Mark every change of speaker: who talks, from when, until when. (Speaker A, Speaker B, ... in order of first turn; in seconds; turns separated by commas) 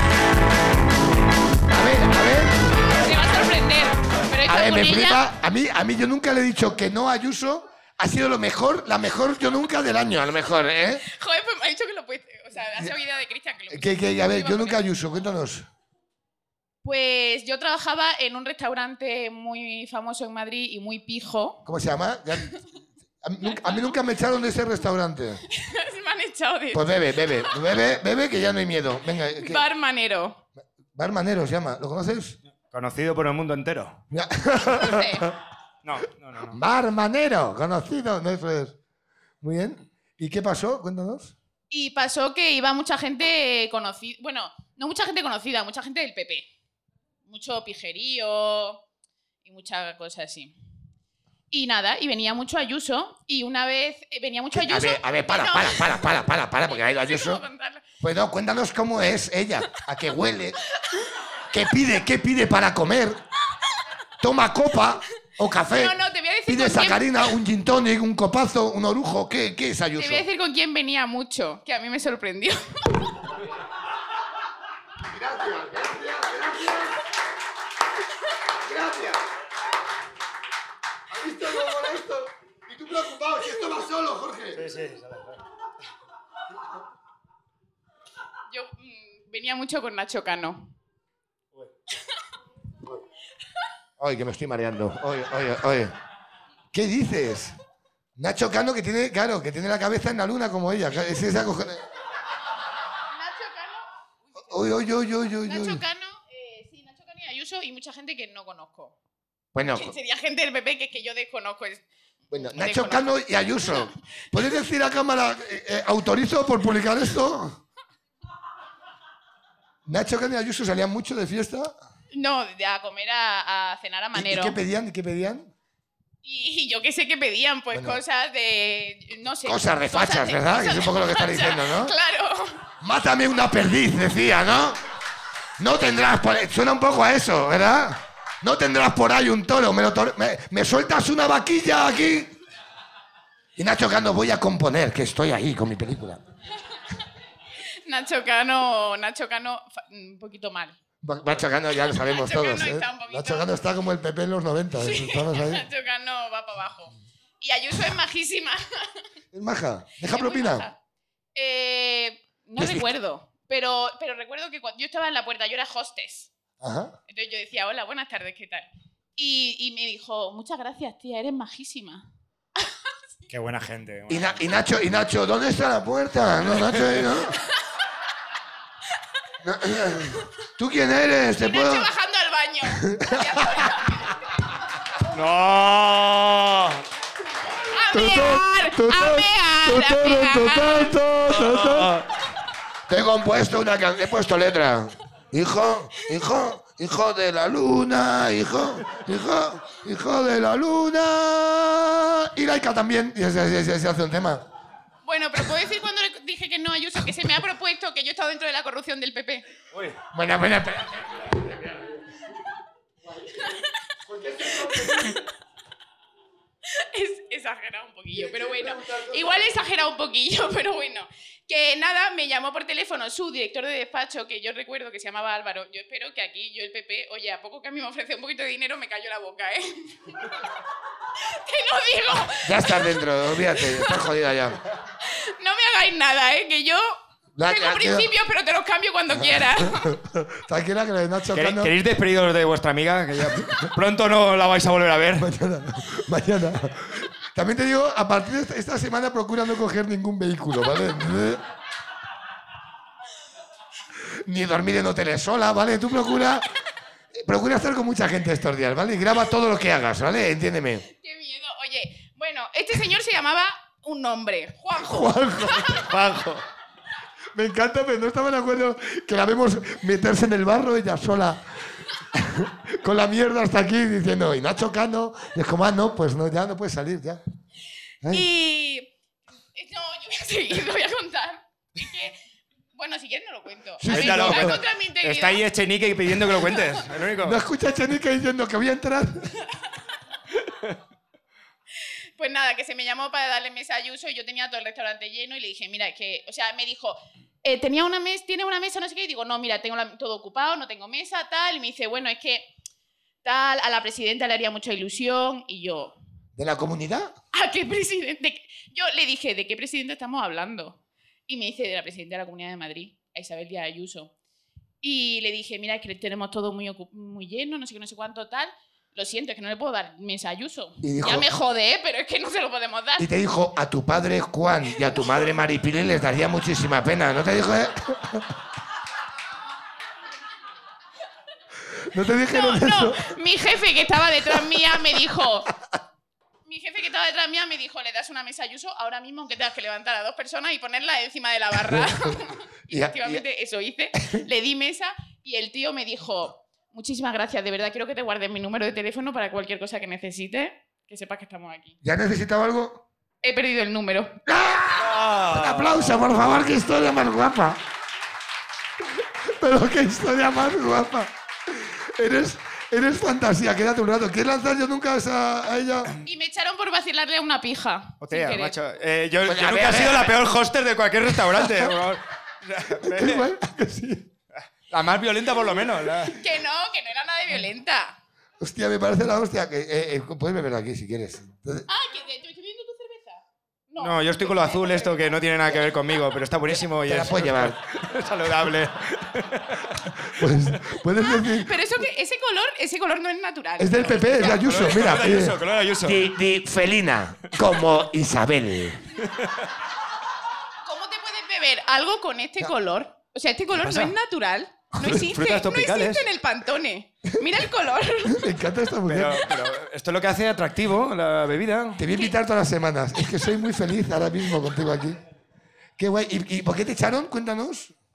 Speaker A: 1.7-2.6, Speaker B: 2.9-5.2, Speaker A: 4.5-11.0, Speaker B: 11.1-14.8, Speaker A: 13.7-15.7, Speaker B: 16.8-21.6, Speaker A: 21.6-22.5, Speaker A: 23.2-25.4, Speaker B: 23.5-23.9, Speaker B: 25.5-26.9, Speaker A: 26.7-29.6, Speaker B: 29.4-30.4, Speaker A: 30.9-32.4, Speaker C: 32.7-34.0, Speaker A: 34.1-35.3, Speaker B: 34.7-35.3, Speaker C: 35.8-36.6, Speaker A: 36.5-38.8, Speaker A: 39.4-41.3, Speaker B: 41.7-46.5, Speaker B: 47.3-48.8, Speaker B: 49.5-50.5, Speaker B: 51.5-56.1, Speaker A: 54.5-57.4, Speaker B: 56.6-57.8, Speaker A: 58.0-60.6, Speaker A: 61.5-63.2, Speaker A: 64.2-66.0, Speaker B: 65.7-67.2, Speaker A: 66.5-70.2, Speaker B: 70.0-72.6, Speaker A: 75.1-77.0, Speaker A: 78.6-79.2, Speaker A: 81.1-84.7, Speaker C: 84.5-85.4, Speaker B: 88.5-90.7, Speaker A: 94.0-95.9, Speaker A: 96.7-97.5, Speaker A: 98.2-101.8, Speaker B: 103.1-103.8, Speaker A: 104.5-105.8, Speaker B: 105.4-109.0, Speaker A: 109.5-109.9, Speaker B: 109.8-111.8, Speaker A: 112.3-117.6, Speaker B: 112.5-113.1, Speaker A: 119.9-121.8, Speaker B: 122.1-124.6, Speaker A: 124.1-125.5, Speaker B: 126.2-132.6, Speaker A: 127.7-128.0, Speaker A: 129.4-131.9, Speaker A: 132.8-134.8, Speaker A: 135.6-142.3, Speaker A: 143.6-146.2, Speaker B: 147.8-150.8, Speaker A: 151.0-155.7, Speaker B: 152.1-153.5, Speaker B: 154.8-158.8, Speaker A: 159.3-160.7, Speaker B: 160.1-160.8, Speaker B: 161.3-166.3, Speaker A: 162.6-162.9, Speaker A: 166.6-166.9, Speaker B: 167.1-172.1, Speaker C: 173.3-174.4, Speaker A: 174.1-177.4, Speaker C: 176.6-176.9, Speaker A: 179.4-181.9, Speaker B: 181.4-184.1, Speaker A: 182.8-183.3, Speaker C: 185.1-186.8, Speaker B: 187.7-191.0, Speaker A: 187.9-191.9, Speaker C: 191.4-192.1, Speaker A: 192.9-204.4, Speaker B: 205.1-209.5, Speaker A: 210.1-211.8, Speaker A: 214.1-215.1, Speaker B: 214.5-215.2, Speaker B: 216.7-230.3, Speaker A: 218.3-219.2, Speaker B: 231.2-233.0, Speaker A: 232.3-234.6, Speaker B: 233.5-233.9, Speaker B: 235.0-239.9, Speaker A: 237.3-238.1, Speaker A: 239.4-241.7, Speaker C: 241.3-245.3, Speaker A: 243.3-243.7, Speaker A: 245.2-251.4, Speaker A: 254.2-256.5, Speaker A: 257.1-260.9, Speaker B: 260.9-265.9, Speaker A: 264.8-265.9, Speaker C: 265.9-266.4, Speaker A: 267.3-271.4, Speaker A: 272.1-277.2, Speaker B: 278.1-278.9, Speaker B: 279.6-282.2, Speaker B: 282.7-285.4, Speaker A: 283.8-284.6, Speaker C: 283.9-287.4, Speaker A: 287.2-289.4, Speaker B: 291.8-302.5, Speaker B: 303.2-306.0, Speaker A: 306.4-307.1, Speaker B: 307.3-314.1, Speaker B: 314.8-323.1, Speaker A: 320.8-321.3, Speaker A: 323.0-328.3, Speaker A: 331.9-333.1, Speaker B: 332.3-335.5, Speaker B: 336.5-351.8, Speaker A: 341.6-342.1, Speaker A: 342.7-343.2, Speaker A: 351.8-352.8, Speaker B: 353.2-354.2, Speaker A: 354.3-357.6, Speaker C: 354.8-356.0, Speaker A: 359.2-365.9, Speaker B: 366.0-368.6, Speaker C: 368.0-373.3, Speaker A: 369.2-370.1, Speaker A: 371.3-371.7, Speaker A: 372.8-374.1, Speaker C: 374.7-376.2, Speaker B: 376.1-378.0, Speaker A: 378.4-381.7, Speaker B: 381.7-385.1, Speaker C: 383.8-390.1, Speaker A: 386.8-387.6, Speaker A: 390.1-391.6, Speaker B: 391.0-394.4, Speaker A: 393.6-398.8, Speaker C: 394.1-396.1, Speaker C: 399.0-399.4, Speaker B: 400.6-408.3, Speaker C: 403.5-403.9, Speaker C: 404.8-406.0, Speaker A: 408.1-409.3, Speaker C: 408.9-411.8, Speaker A: 411.8-415.0, Speaker A: 415.8-417.7